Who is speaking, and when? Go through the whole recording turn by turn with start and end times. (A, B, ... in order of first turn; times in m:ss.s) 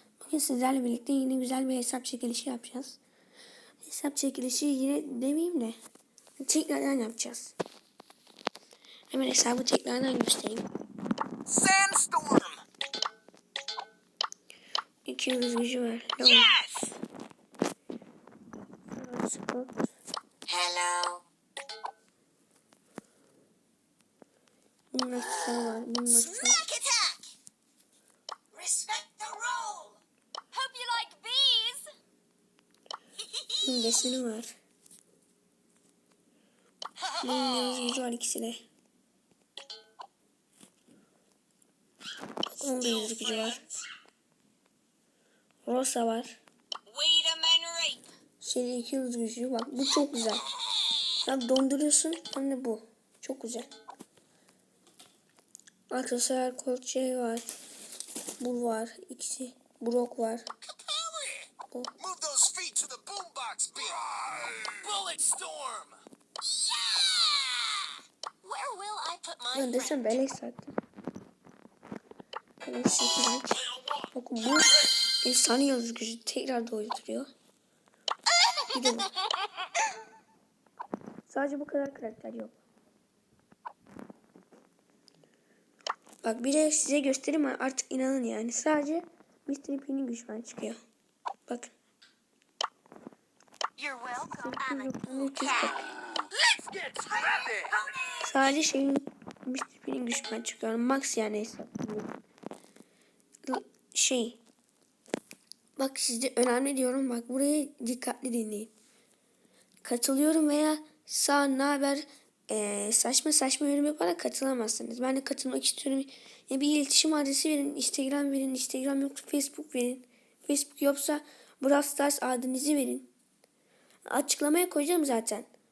0:00.2-0:03.0 A
0:03.8-0:05.8 A
0:06.4-0:07.5 A
0:09.1-0:10.7 A
0:11.5-0:12.6 B
0:15.0-0:16.5 A
0:16.2-0:16.9 C
0:18.9-0:19.9 A
0:20.5-0:21.2 C
0:24.9-0:26.6 A
0:26.1-0:27.2 C
0:28.5-0:30.0 C
0:30.5-0:31.9 C
0:33.6-0:34.5 A
0:37.2-0:38.6 A
0:42.6-0:43.7 A
0:42.8-0:43.7 C
0:45.6-0:46.4 A
0:46.9-0:48.1 C
0:48.4-0:50.5 A
0:51.2-0:53.7 A
0:55.9-0:57.5 A
0:58.4-1:00.5 A
1:00.8-1:01.4 C
1:02.0-1:06.0 B
1:06.5-1:07.9 C
1:08.4-1:10.2 C
1:09.5-1:10.8 A
1:12.6-1:17.3 A
1:18.7-1:19.1 A
1:21.3-1:22.6 A
1:26.2-1:30.8 A
1:31.5-1:31.7 A
1:33.8-1:35.9 C
1:34.3-1:36.0 A
1:36.7-1:37.7 B
1:37.7-1:38.2 C
1:38.2-1:42.1 A
1:43.4-1:44.4 A
1:45.8-1:48.7 A
1:49.8-2:03.1 A
2:04.1-2:05.5 A